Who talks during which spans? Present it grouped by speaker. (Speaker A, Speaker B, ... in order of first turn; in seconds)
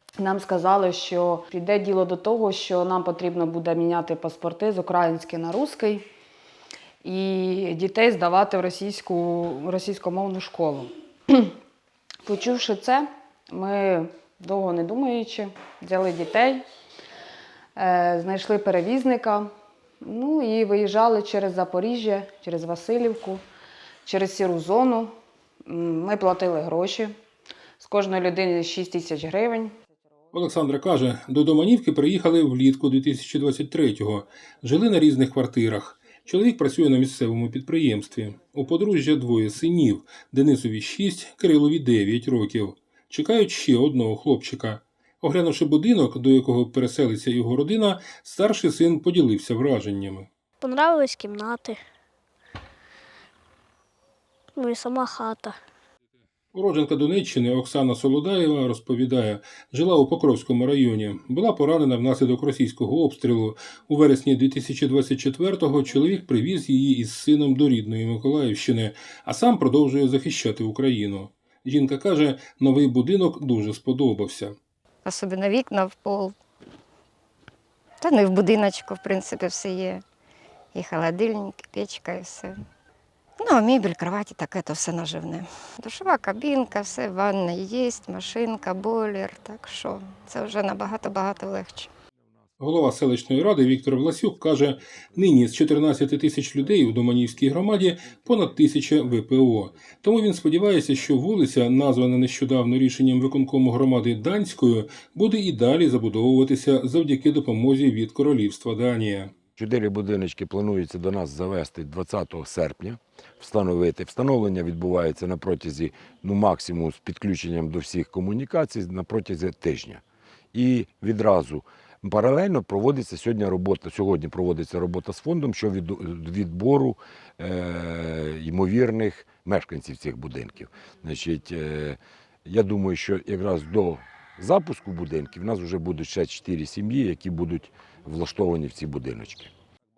Speaker A: 0.2-6.0, 7.0-11.5, 12.2-16.6, 17.8-19.5, 20.0-23.4, 24.0-25.1, 25.6-27.1, 27.8-29.7
Speaker B: 30.3-50.3, 56.5-74.5, 92.6-109.3
Speaker C: 50.6-51.8, 54.5-55.6
Speaker D: 75.0-76.3, 78.0-80.0, 80.7-82.5, 83.4-91.9
Speaker E: 109.6-139.5